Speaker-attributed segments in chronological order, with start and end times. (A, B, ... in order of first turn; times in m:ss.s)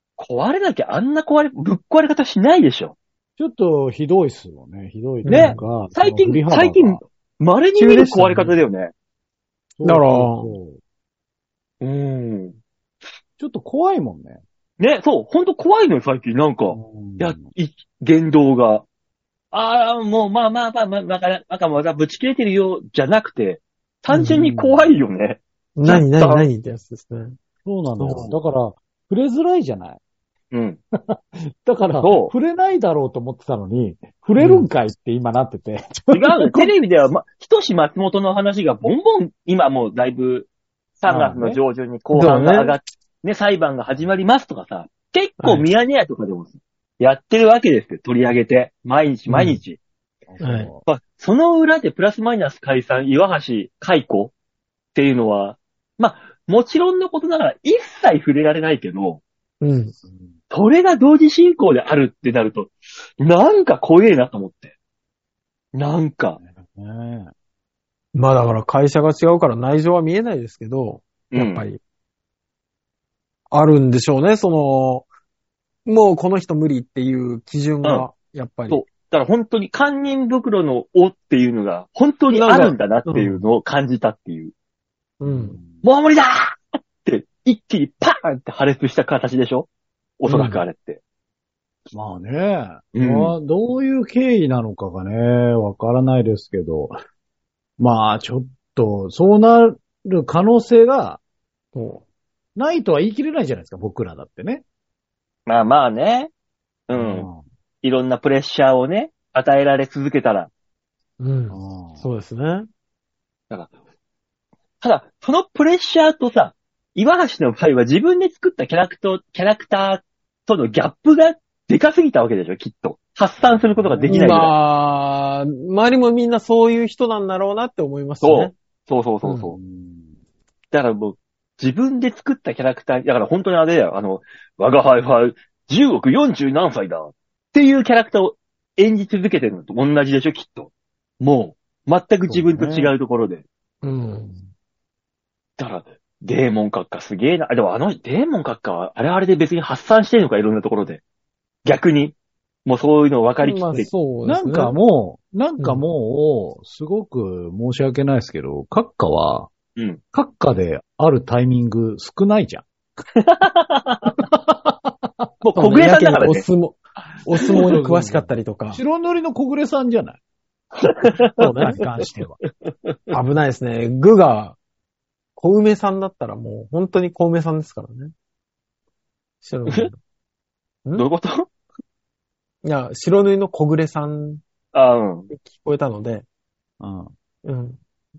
0:00.2-0:03.0 A
0:03.4-0:07.0 B
0:05.2-0:05.6 C
0:05.3-0:08.9 A
0:07.8-0:08.6 C
0:09.8-0:10.8 B
0:09.8-0:10.5 C
0:11.8-0:12.6 A
0:13.4-0:14.4 B
0:14.8-0:18.8 A
0:16.7-0:17.5 B
0:19.5-0:26.4 A
0:24.1-0:24.5 C
0:24.3-0:24.9 B
0:25.8-0:27.4 C
0:27.6-0:30.0 B
0:28.0-0:28.3 C
0:30.5-0:30.8 A
0:31.1-0:36.7 B
0:32.0-0:32.3 A
0:34.4-0:34.7 C
0:36.1-0:49.8 A
0:41.0-0:41.6 B
0:42.1-0:42.8 C
0:45.4-0:45.7 C
0:49.3-0:49.6 C
0:50.3-0:50.9 B
0:50.4-0:50.7 C
0:50.8-0:54.3 A
0:54.9-0:59.2 A
0:59.6-0:59.9 C
1:00.0-1:00.3 B
1:00.5-1:04.7 A
1:05.7-1:06.4 A
1:06.4-1:07.3 B
1:08.1-1:11.8 C
1:11.3-1:11.6 A
1:13.5-1:15.0 C
1:15.8-1:18.8 C
1:17.8-1:18.1 A
1:18.7-1:24.5 A
1:22.3-1:23.4 C
1:25.2-1:25.6 C
1:25.2-1:25.8 B
1:25.8-1:29.7 A
1:30.2-1:31.0 A
1:30.3-1:30.6 C
1:31.9-1:36.9 B
1:32.9-1:33.3 A
1:37.8-1:41.2 B
1:41.7-1:42.0 C
1:42.6-1:44.6 B
1:45.5-1:46.3 A
1:46.9-1:47.3 A
1:46.9-1:47.4 B
1:47.8-1:50.5 A
1:51.2-1:52.7 C
1:51.5-1:52.1 B
1:54.8-2:04.5 A
2:03.4-2:04.5 B
2:04.1-2:08.5 C
2:08.2-2:09.6 A
2:09.2-2:09.5 C
2:09.5-2:10.1 B
2:10.7-2:23.4 A
2:22.3-2:22.9 B
2:23.8-2:24.4 C
2:25.6-2:31.0 A
2:31.6-2:33.9 A
2:33.4-2:34.7 C
2:34.2-2:39.5 B
2:40.1-2:42.7 B
2:43.2-2:44.1 A
2:44.2-2:45.1 B
2:45.4-2:46.4 A
2:45.6-2:48.8 C
2:47.3-2:50.2 B
2:50.8-2:51.7 A
2:51.4-2:51.8 C
2:51.5-2:52.4 B
2:52.7-2:53.2 A
2:53.1-2:54.6 C
2:55.4-2:58.1 C
2:59.4-3:00.0 C
3:01.0-3:01.5 A
3:02.6-3:04.4 C
3:04.7-3:05.3 A
3:05.3-3:06.2 C
3:06.8-3:07.1 B
3:07.4-3:07.8 C